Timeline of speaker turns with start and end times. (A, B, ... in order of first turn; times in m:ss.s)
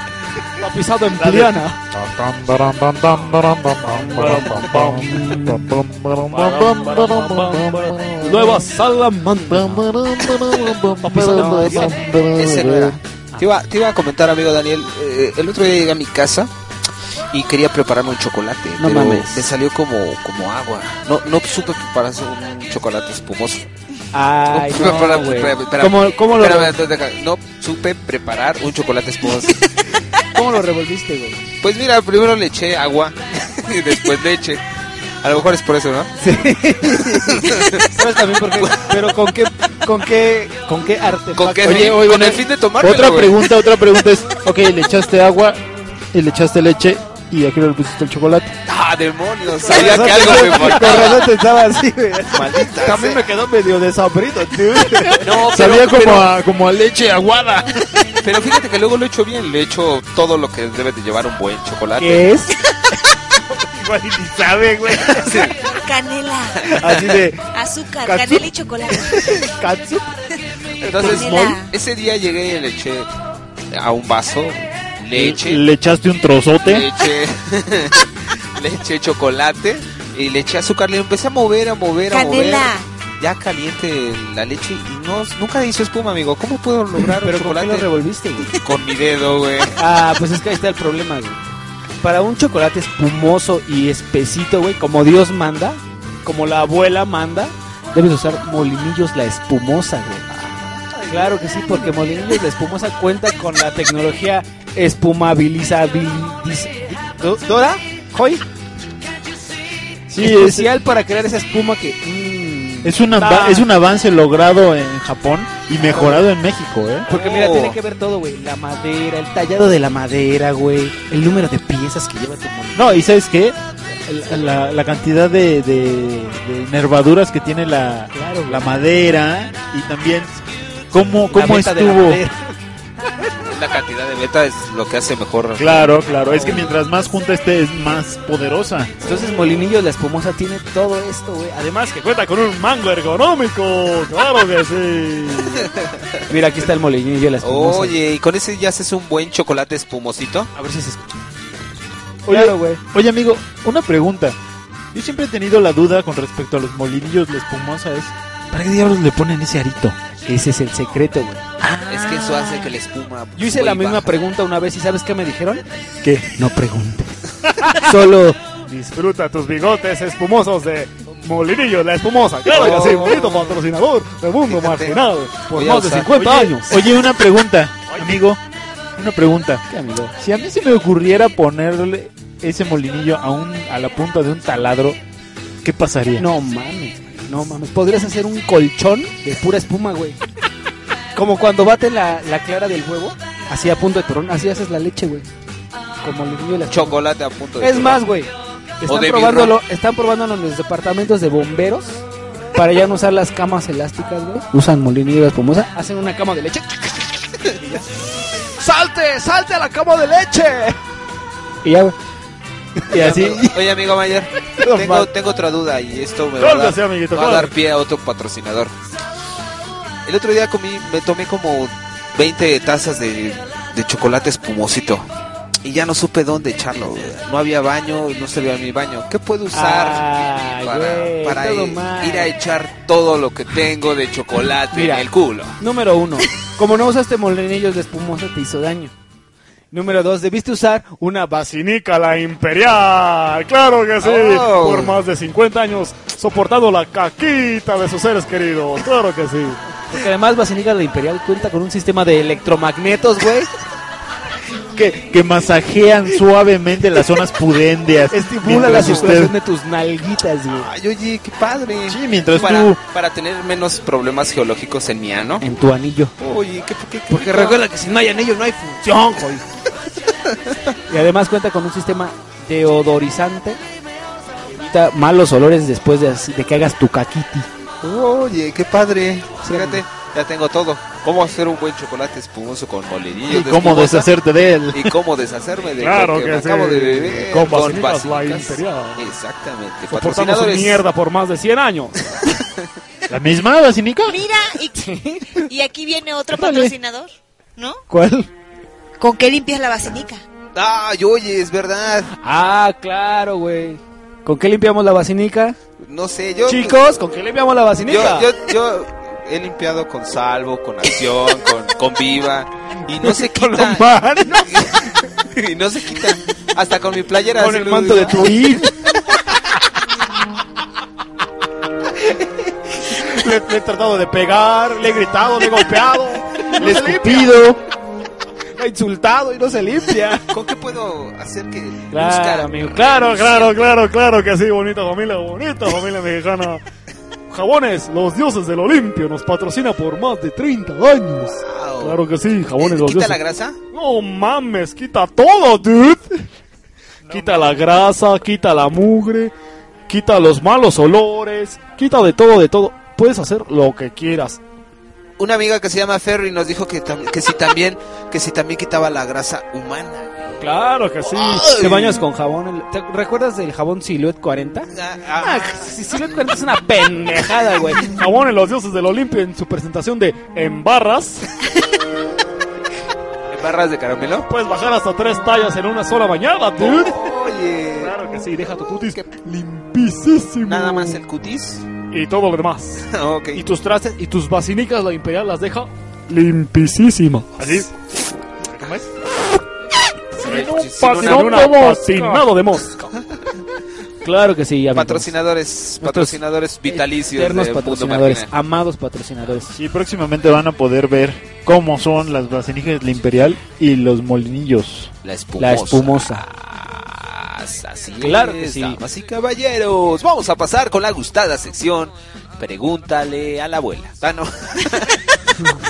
0:00.6-0:01.8 A
0:01.2-0:08.6 B
0:03.9-0:05.6 A
0:04.2-0:05.1 C
0:06.3-0:09.3 C
0:08.2-0:09.8 A
0:09.5-0:13.0 B
0:11.0-0:12.0 A
0:12.3-0:16.5 D
0:17.3-0:23.7 D
0:18.8-0:19.5 A
0:24.1-0:26.8 A
0:24.5-0:29.6 D
0:30.3-0:31.4 A
0:31.6-0:34.6 D
0:35.2-0:36.2 D
0:36.2-0:42.4 A
0:37.0-0:37.9 D
0:38.6-0:38.9 D
0:41.4-0:43.5 D
0:41.6-0:45.6 B
0:46.1-0:48.5 B
0:48.6-0:51.3 D
0:49.6-0:55.2 A
0:52.3-0:53.2 D
0:55.2-0:56.3 D
0:55.4-0:57.8 B
0:58.2-1:02.3 D
1:02.0-1:02.5 A
1:03.7-1:05.4 A
1:05.1-1:05.5 D
1:05.6-1:06.8 E
1:06.7-1:07.4 A
1:07.5-1:09.4 E
1:08.0-1:10.1 A
1:10.8-1:13.1 D
1:10.8-1:11.5 A
1:10.9-1:11.7 E
1:13.7-1:15.6 D
1:15.1-1:16.9 B
1:16.6-1:27.9 D
1:22.1-1:22.8 E
1:27.2-1:28.5 A
1:28.6-1:29.8 D
1:29.8-1:31.4 A
1:32.0-1:40.3 A
1:40.5-1:41.4 D
1:41.1-1:48.4 A
1:50.1-1:50.7 B
1:50.2-1:53.6 A
1:52.8-1:57.1 B
1:55.8-1:56.2 A
1:57.1-2:03.0 A
1:57.1-1:57.8 D
2:02.7-2:10.4 B
2:08.1-2:08.8 A
2:10.9-2:12.2 B
2:11.3-2:12.4 A
2:13.4-2:16.5 D
2:15.6-2:18.9 B
2:19.0-2:21.9 A
2:21.8-2:25.6 C
2:26.3-2:27.9 A
2:27.4-2:30.5 D
2:30.5-2:31.0 A
2:32.2-2:32.8 A
2:32.3-2:34.4 B
2:34.9-2:38.1 B
2:38.5-2:41.4 A
2:39.5-2:39.9 B
2:41.8-2:44.2 D
2:43.4-2:48.4 A
2:48.7-2:55.4 C
2:51.8-2:53.2 A
2:52.4-2:53.6 D
2:54.5-2:56.2 D
2:55.5-2:56.8 A
2:56.1-2:58.4 B
2:59.0-2:59.6 B
2:59.7-3:00.1 A
3:00.2-3:05.0 B
3:05.6-3:06.3 B
3:06.2-3:10.2 A
3:11.1-3:15.3 A
3:16.0-3:17.0 A
3:16.7-3:18.0 D
3:17.6-3:18.3 A
3:18.8-3:22.0 A
3:18.9-3:19.6 D
3:22.5-3:30.8 A
3:31.6-3:31.9 A
3:32.8-3:33.6 A
3:32.9-3:38.7 D
3:34.6-3:35.1 A
3:36.4-3:37.5 C
3:40.0-3:45.1 D
3:45.6-3:55.6 D
3:49.5-3:52.3 A
3:54.7-3:55.0 A
3:55.6-3:58.9 A
3:59.7-4:01.5 A
4:01.4-4:09.6 C
4:04.0-4:05.0 D
4:09.9-4:13.5 A
4:14.7-4:19.3 B
4:18.1-4:20.7 A
4:18.7-4:19.1 D
4:20.5-4:25.4 D
4:21.9-4:22.8 B
4:25.4-4:26.1 A
4:26.2-4:27.6 D
4:27.1-4:29.4 A
4:30.9-4:33.6 A
4:34.5-4:37.5 A
4:37.8-4:44.1 D
4:39.4-4:39.8 A
4:43.3-4:45.0 B
4:44.7-4:50.8 D
4:45.8-4:49.0 C
4:49.9-4:51.9 C
4:52.2-4:52.4 D
4:53.1-4:54.2 B
4:54.0-4:57.8 E
4:54.8-4:55.4 A
4:56.3-4:56.7 A
4:57.9-4:58.3 A
4:59.0-5:00.2 E
5:00.5-5:02.1 D
5:02.2-5:05.6 A
5:05.8-5:06.8 D
5:06.4-5:08.3 A
5:07.8-5:18.3 D
5:13.0-5:14.5 A
5:17.4-5:18.7 A
5:23.0-5:27.1 C
5:26.6-5:27.6 B
5:26.6-5:27.1 A
5:28.6-5:30.2 A
5:30.3-5:33.6 D
5:31.9-5:33.0 A
5:32.9-5:36.6 C
5:37.3-5:43.2 C
5:41.3-5:42.0 D
5:42.6-5:43.6 D
5:43.7-5:46.2 C
5:47.1-5:49.3 C
5:47.1-5:47.6 B
5:49.9-5:54.4 C
5:55.2-6:00.4 D
6:00.4-6:01.5 C
6:01.0-6:02.0 D
6:01.5-6:07.8 A
6:04.7-6:06.2 D
6:07.8-6:11.3 C
6:13.3-6:14.3 D
6:14.3-6:17.1 C
6:16.6-6:17.9 D
6:17.8-6:21.0 C
6:20.4-6:21.6 D
6:21.9-6:27.7 C
6:22.8-6:23.4 D
6:28.4-6:28.8 D
6:30.2-6:31.4 D
6:30.2-6:32.9 C
6:30.3-6:32.2 B
6:34.0-6:35.1 A
6:34.7-6:38.3 D
6:35.8-6:39.5 A
6:39.5-6:44.9 B
6:45.0-6:55.5 D
6:45.4-6:46.2 A
6:48.0-6:48.8 A